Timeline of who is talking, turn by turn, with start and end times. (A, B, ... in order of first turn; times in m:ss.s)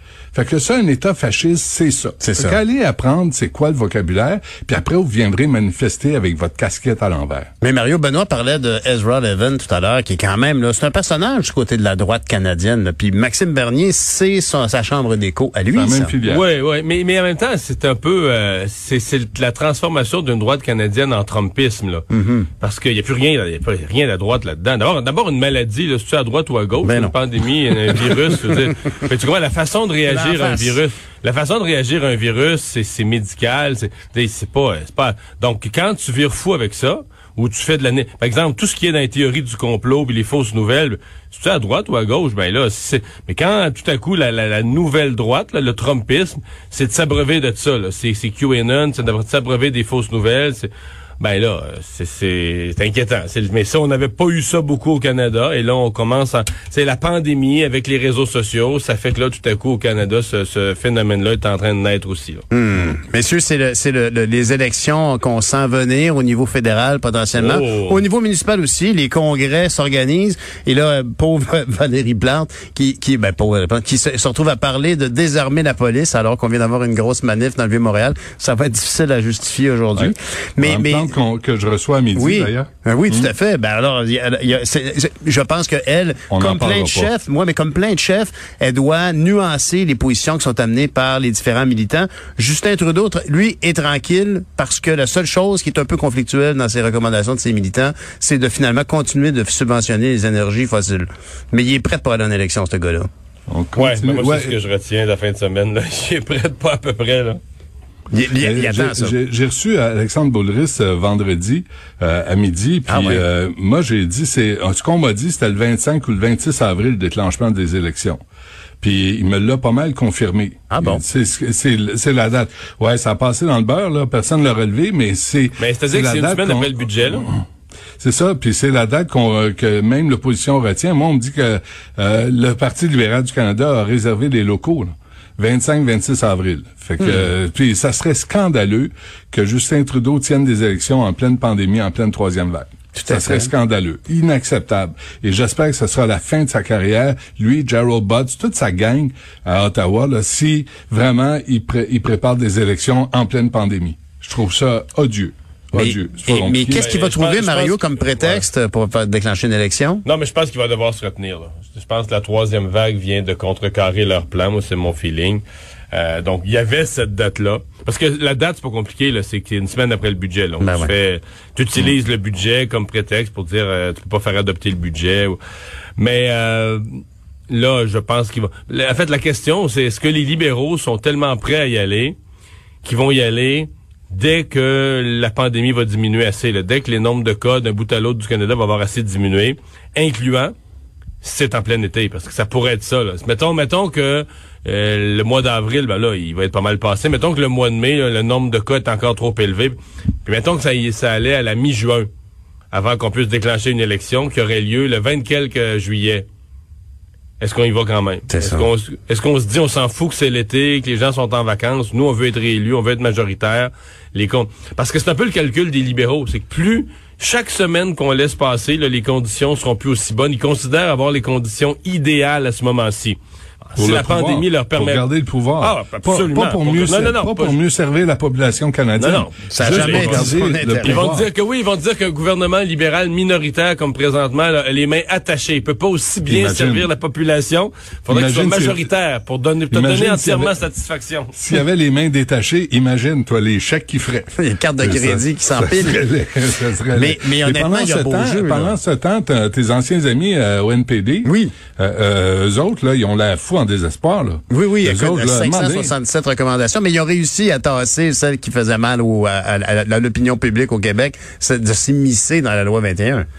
0:00.3-0:07.5 A
0:02.2-0:02.6 B
0:07.6-0:16.1 B
0:15.7-0:16.4 A
0:16.2-0:22.0 C
0:22.1-0:22.5 B
0:22.6-1:02.4 C
0:26.8-0:27.1 B
0:27.9-0:28.2 B
0:30.0-0:30.8 B
1:02.5-1:21.1 B
1:07.4-1:08.0 C
1:19.9-1:23.3 A
1:22.1-1:43.1 B
1:26.3-1:27.1 A
1:43.5-1:44.6 A
1:43.8-1:47.4 C
1:48.1-1:49.2 B
1:48.4-1:58.2 A
1:52.9-1:53.2 B
1:58.8-2:07.4 A
2:00.7-2:01.0 B
2:05.6-2:07.3 C
2:08.0-2:36.9 A
2:17.0-2:17.2 B
2:23.0-2:23.5 B
2:35.7-2:40.0 B
2:36.7-2:38.5 C
2:40.0-2:55.4 C
2:50.6-2:50.9 B
2:56.0-3:02.2 C
3:02.8-3:10.5 C
3:11.2-3:22.1 C
3:22.7-3:26.3 C
3:27.4-3:47.6 C
3:28.3-3:28.7 B
3:43.8-3:51.3 A
3:49.0-4:01.3 C
3:49.5-3:51.0 B
3:56.3-3:56.9 A
3:58.1-3:58.9 A
3:59.7-4:00.6 A
4:01.3-4:15.9 A
4:04.3-4:06.0 B
4:06.9-4:08.8 B
4:11.2-4:11.5 B
4:14.5-4:23.2 B